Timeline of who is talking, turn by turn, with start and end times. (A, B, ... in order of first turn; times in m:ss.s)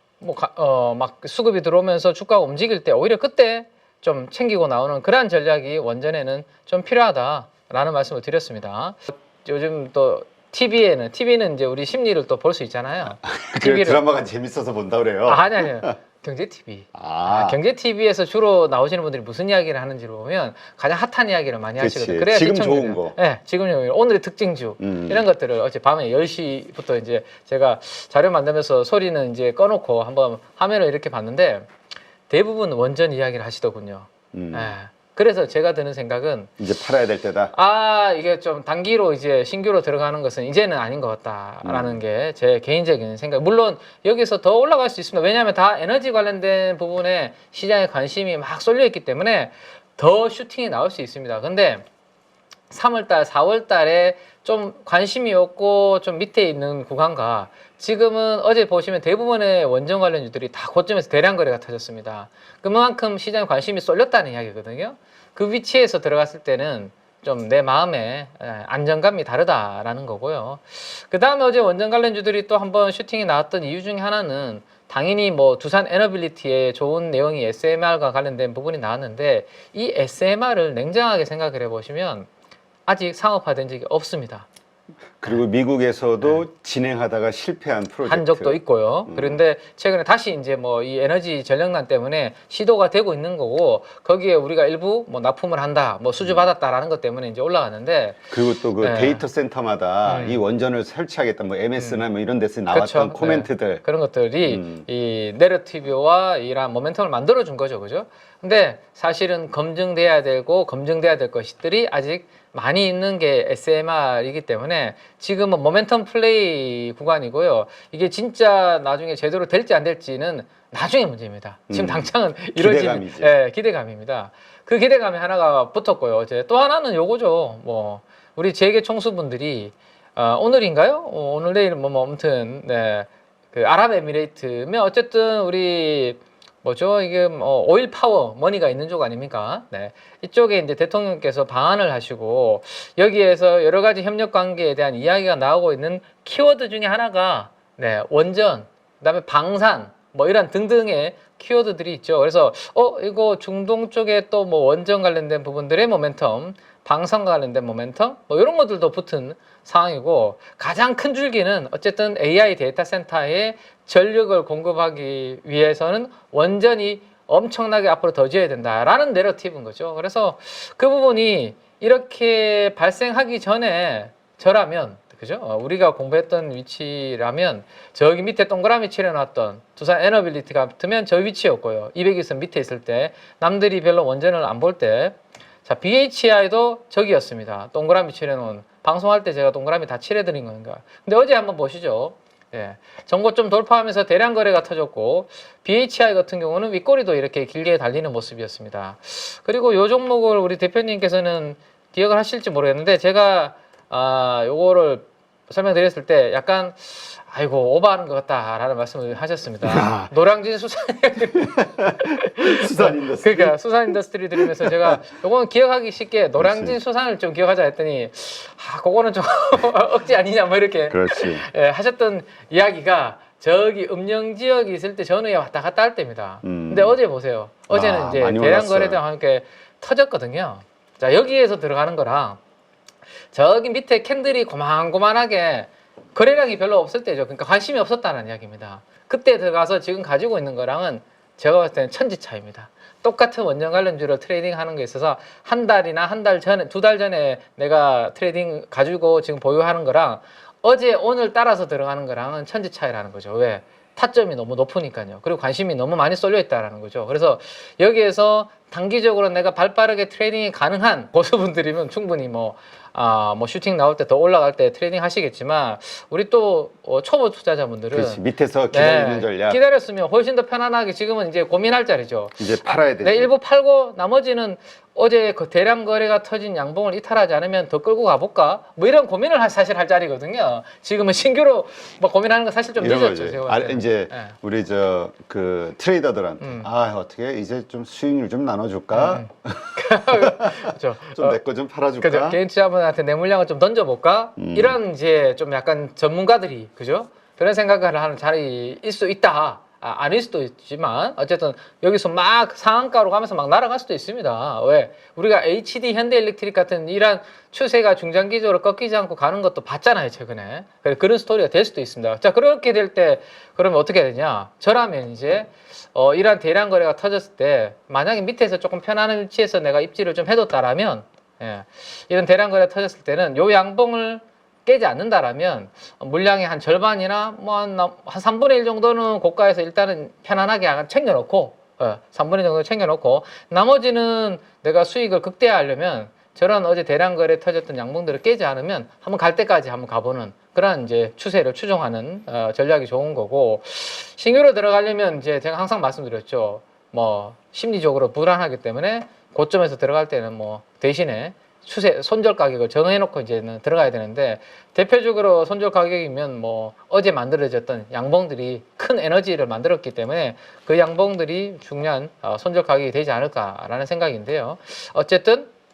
0:00.2-0:14.0 A
0:13.2-0:15.9 B
0:15.2-0:31.7 A
0:16.9-0:17.6 B
0:21.8-0:23.2 B
0:24.8-0:25.2 B
0:32.3-0:36.6 A
0:34.3-0:34.8 B
0:36.6-0:37.5 B
0:37.5-0:51.9 A
0:41.6-0:42.0 B
0:52.7-1:22.3 A
1:22.9-1:24.4 A
1:25.2-1:29.4 B
1:28.0-1:39.2 A
1:36.2-1:36.5 B
1:38.3-1:43.8 B
1:40.0-1:40.4 A
1:41.8-1:42.0 A
1:42.7-3:52.4 A
1:44.4-1:44.8 B
2:01.7-2:03.3 B
3:29.6-3:30.1 B
3:32.4-3:33.5 B
3:34.4-3:34.9 B
3:36.4-3:36.8 B
3:40.9-3:41.5 B
3:46.4-3:47.0 B
3:47.7-3:49.0 B
3:53.3-4:44.4 A
4:27.9-4:29.6 B
4:32.4-4:33.3 B
4:42.8-4:50.5 B
4:46.4-4:46.7 A
4:48.9-4:51.4 A
4:51.1-4:52.4 B
4:52.0-6:05.5 A
4:54.4-4:54.8 B